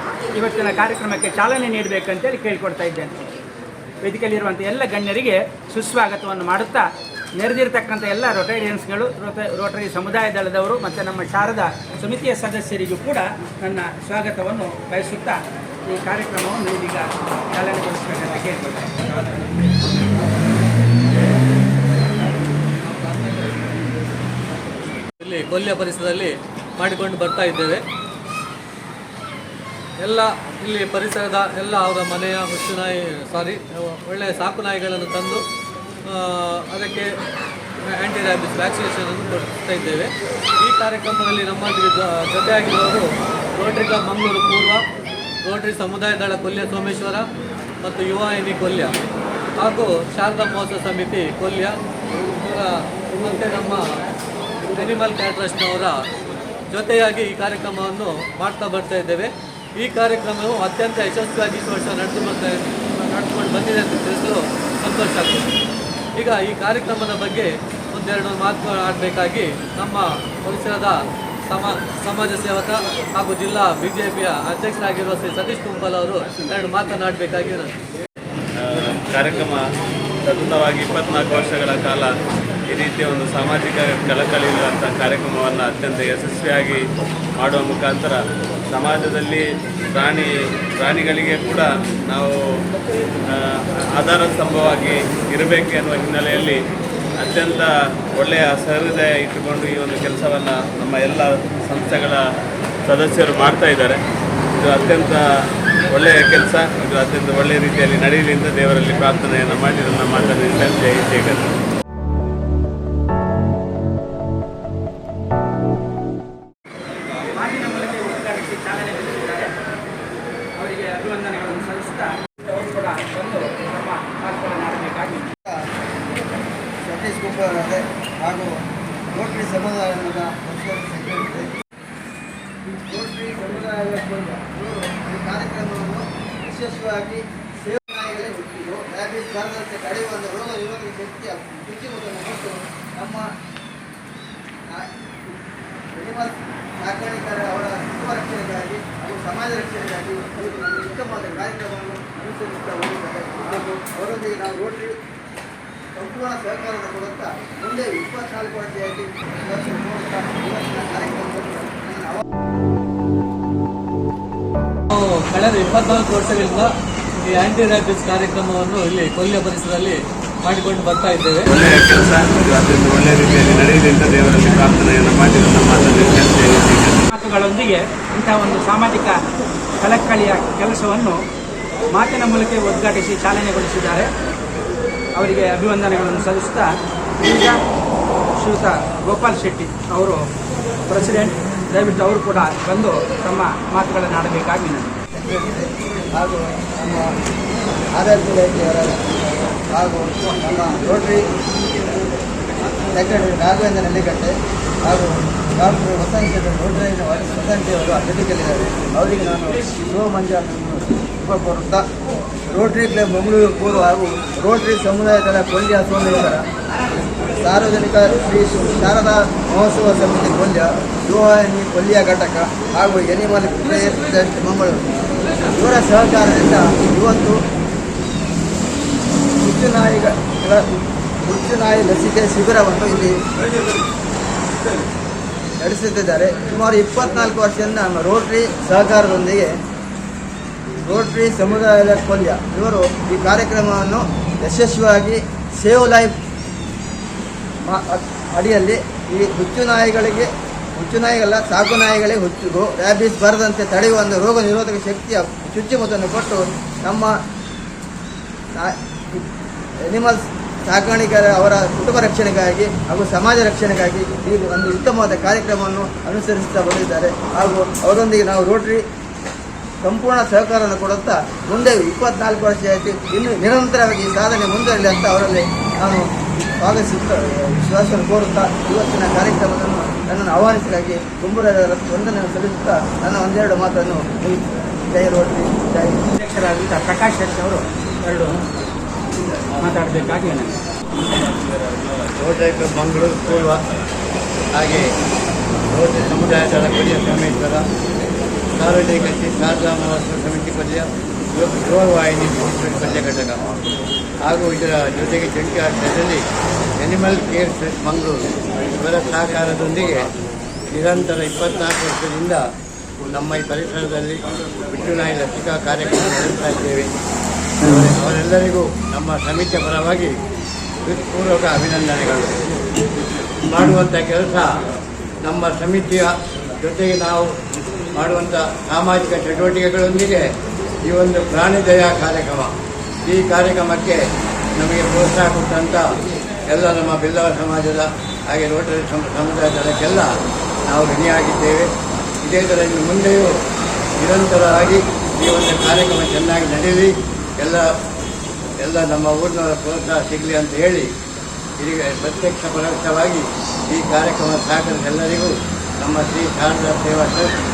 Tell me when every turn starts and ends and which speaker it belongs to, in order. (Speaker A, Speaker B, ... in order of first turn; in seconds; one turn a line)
Speaker A: 0.3-3.3
Speaker A: 4.0-6.8
Speaker A: 7.4-19.5
Speaker B: 25.2-27.8
Speaker B: 30.0-35.4
Speaker B: 36.1-37.1
Speaker B: 37.8-44.8
Speaker B: 45.4-47.3
Speaker B: 47.8-48.9
Speaker B: 49.6-54.0
Speaker B: 54.7-56.0
Speaker B: 56.7-65.5
Speaker B: 66.2-77.8
Speaker C: 78.5-79.6
Speaker C: 80.2-82.1
Speaker C: 82.7-86.8
Speaker C: 87.4-88.2
Speaker C: 88.7-92.3
Speaker C: 93.2-96.6
Speaker C: 97.2-102.2
Speaker C: 102.8-104.0
Speaker C: 104.5-105.2
Speaker C: 105.9-111.5
Speaker A: 117.3-119.5
Speaker A: 120.6-125.3
Speaker D: 126.8-131.5
Speaker D: 132.9-143.3
Speaker D: 145.9-154.9
Speaker D: 155.9-162.2
Speaker B: 164.9-171.5
Speaker C: 171.5-177.0
Speaker A: 177.1-179.2
Speaker A: 179.8-181.2
Speaker A: 181.9-184.1
Speaker A: 185.2-187.6
Speaker A: 188.4-190.2
Speaker A: 190.9-194.9
Speaker D: 195.1-197.1
Speaker D: 197.9-201.3
Speaker D: 202.9-211.8
Speaker D: 212.5-216.4
Speaker D: 217.3-224.9
Speaker D: 225.5-227.4
Speaker D: 229.4-230.7
Speaker D: 231.2-233.2
Speaker D: 235.6-239.5
Speaker D: 240.8-246.2
Speaker D: 247.6-257.2
Speaker D: 258.5-259.2
Speaker D: 259.8-268.8
Speaker D: 269.8-286.0
Speaker A: 286.2-288.4
Speaker A: 289.6-290.6
Speaker C: 291.0-292.4
Speaker E: 292.2-293.6
Speaker C: 293.3-293.8
Speaker E: 294.5-294.9
Speaker E: 295.7-297.6
Speaker E: 298.5-303.5
Speaker E: 304.2-306.2
Speaker E: 306.8-310.1
Speaker E: 310.7-312.4
Speaker E: 313.1-316.9
Speaker E: 317.6-320.1
Speaker E: 320.8-322.4
Speaker E: 323.4-324.5
Speaker E: 325.2-327.4
Speaker E: 327.9-332.5
Speaker E: 333.0-334.0
Speaker E: 334.5-335.9
Speaker E: 336.4-340.1
Speaker E: 340.6-341.7
Speaker E: 342.2-343.3
Speaker E: 344.0-347.7
Speaker E: 348.6-350.9
Speaker E: 351.6-357.3